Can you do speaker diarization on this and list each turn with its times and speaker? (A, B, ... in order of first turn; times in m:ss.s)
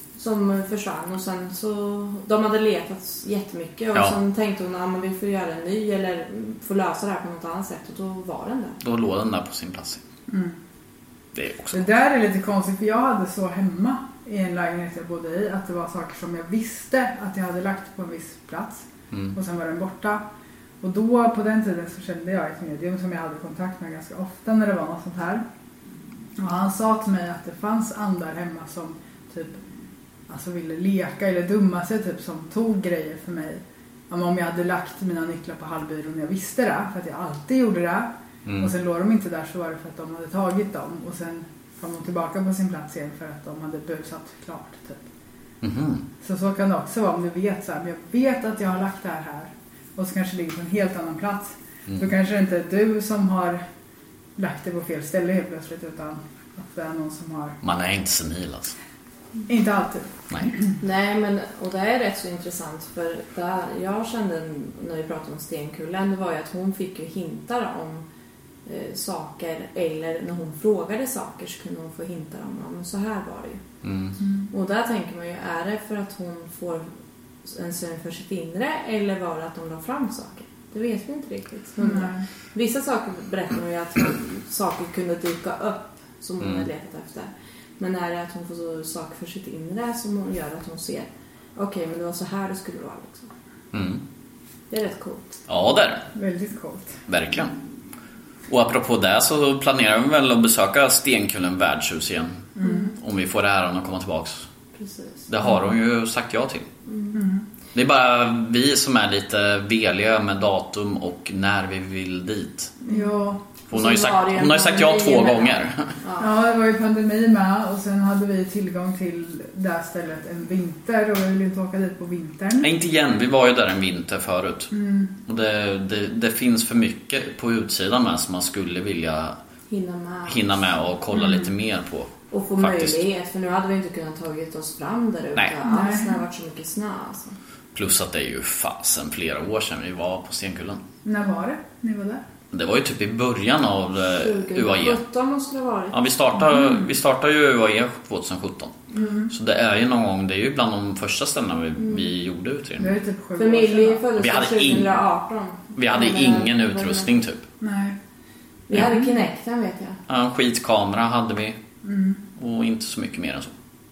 0:00.2-0:08.8 A
0:08.8-0:10.0 B
0:10.3-0:10.6 C
0:11.3-0:11.8 B
0:11.7-0:20.2 C
0:20.8-0:25.4 C
0:26.4-0:29.6 C
0:30.3-0:45.1 C
0:38.4-0:38.7 B
0:45.6-0:46.0 B
0:46.2-0:53.6 C
0:54.4-0:57.6 C
0:57.6-0:58.7 B
0:59.5-1:00.7 C
1:00.8-1:08.0 A
1:08.6-1:13.6 A
1:13.8-1:14.2 B
1:14.2-1:14.5 C
1:14.5-1:16.9 A
1:17.4-1:33.3 A
1:21.8-1:22.2 C
1:26.4-1:26.6 B
1:33.7-1:34.0 B
1:34.7-1:35.4 A
1:35.5-1:36.1 B
1:36.1-1:37.0 C
1:37.1-1:37.5 B
1:38.5-1:44.5 B
1:42.6-1:42.9 C
1:44.7-1:45.3 A
1:45.3-1:46.7 B
1:46.9-1:47.2 A
1:47.1-1:47.4 C
1:47.7-1:52.8 B
1:52.9-1:53.4 C
1:53.7-1:55.9 B
1:53.7-1:56.3 A
1:56.2-2:02.7 C
2:02.6-2:04.7 B
2:04.7-2:05.1 C
2:05.2-2:09.3 B
2:09.7-2:10.5 A
2:10.3-2:13.0 B
2:11.1-2:11.4 C
2:12.3-2:17.4 A
2:15.6-2:16.2 C
2:17.7-2:20.8 B
2:21.0-2:22.2 C
2:22.5-2:25.0 B
2:24.1-2:26.0 A
2:25.9-2:33.0 B
2:26.5-2:26.8 C
2:28.9-2:29.3 C
2:31.8-2:32.1 A
2:32.8-2:34.0 C
2:33.4-2:37.2 A
2:34.2-2:34.9 B
2:35.8-2:37.4 B
2:37.6-2:38.0 C
2:38.7-2:40.0 A
2:40.1-2:41.6 B
2:41.8-2:42.2 C
2:42.4-2:43.5 B